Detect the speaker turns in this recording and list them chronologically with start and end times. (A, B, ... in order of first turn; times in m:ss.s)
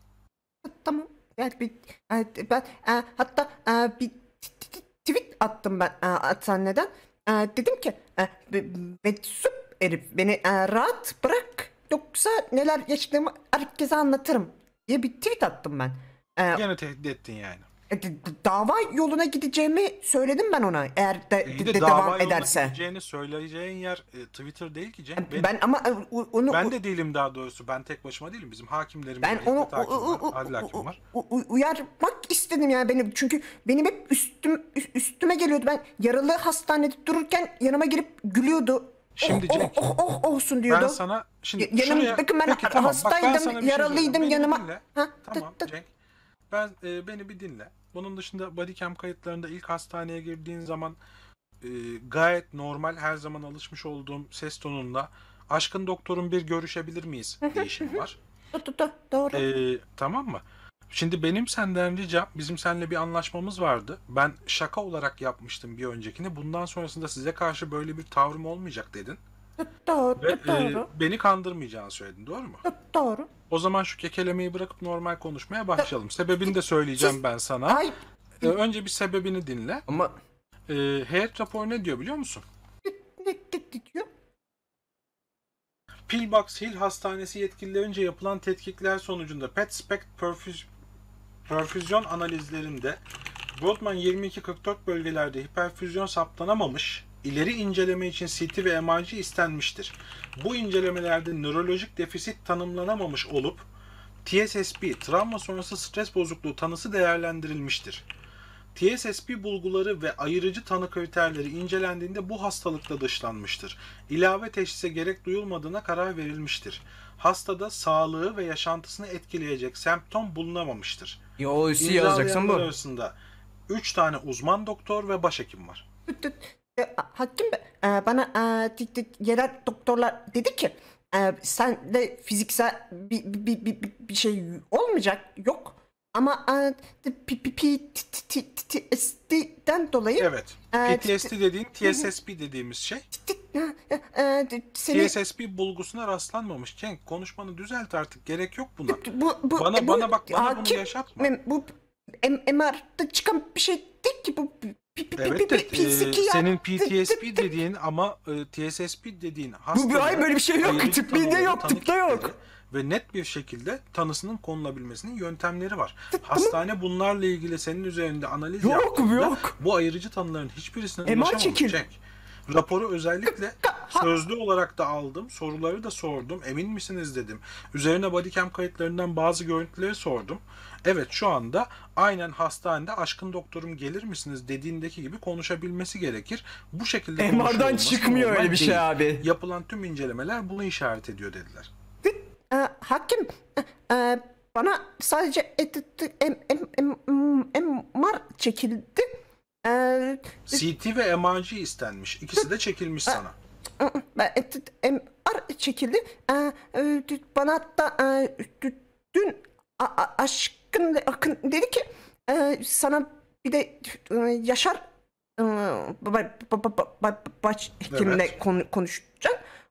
0:00.6-0:16.6 A
0:16.5-0:17.7 B
0:17.9-0:22.8 A
0:21.4-0:25.5 B
0:25.2-0:26.7 A
0:26.5-0:31.0 B
0:29.2-0:41.0 A
0:39.2-0:39.9 B
0:40.7-0:45.9 B
0:41.6-0:45.7 A
0:46.5-0:51.0 B
0:51.6-0:58.2 B
0:57.5-0:58.0 A
0:58.5-0:59.4 A
0:59.3-1:09.2 B
1:09.6-1:10.9 A
1:10.2-1:12.6 B
1:12.6-1:13.3 A
1:13.5-1:17.9 B
1:17.7-1:18.5 A
1:18.4-1:19.8 B
1:19.9-1:20.1 C
1:20.7-1:22.4 B
1:22.8-1:24.1 A
1:26.1-1:30.7 B
1:31.5-1:33.0 B
1:33.6-1:43.7 B
1:44.2-1:48.0 B
1:48.8-2:01.2 B
2:01.4-2:02.7 C
2:01.8-2:03.2 B
2:03.7-2:05.8 B
2:06.1-2:21.3 A
2:20.2-2:23.1 B
2:23.1-2:25.1 A
2:24.9-2:29.0 B
2:28.9-2:37.6 A
2:29.6-2:31.3 B
2:35.2-3:11.7 B
2:39.8-2:42.3 C
2:46.1-2:46.6 A
2:48.6-2:49.5 C
2:51.1-2:51.8 A
2:53.6-2:54.1 A
3:07.2-3:09.2 C
3:12.0-3:20.6 A
3:20.5-3:23.3 B
3:23.8-3:34.9 A
3:35.4-3:39.4 A
3:37.9-3:38.3 B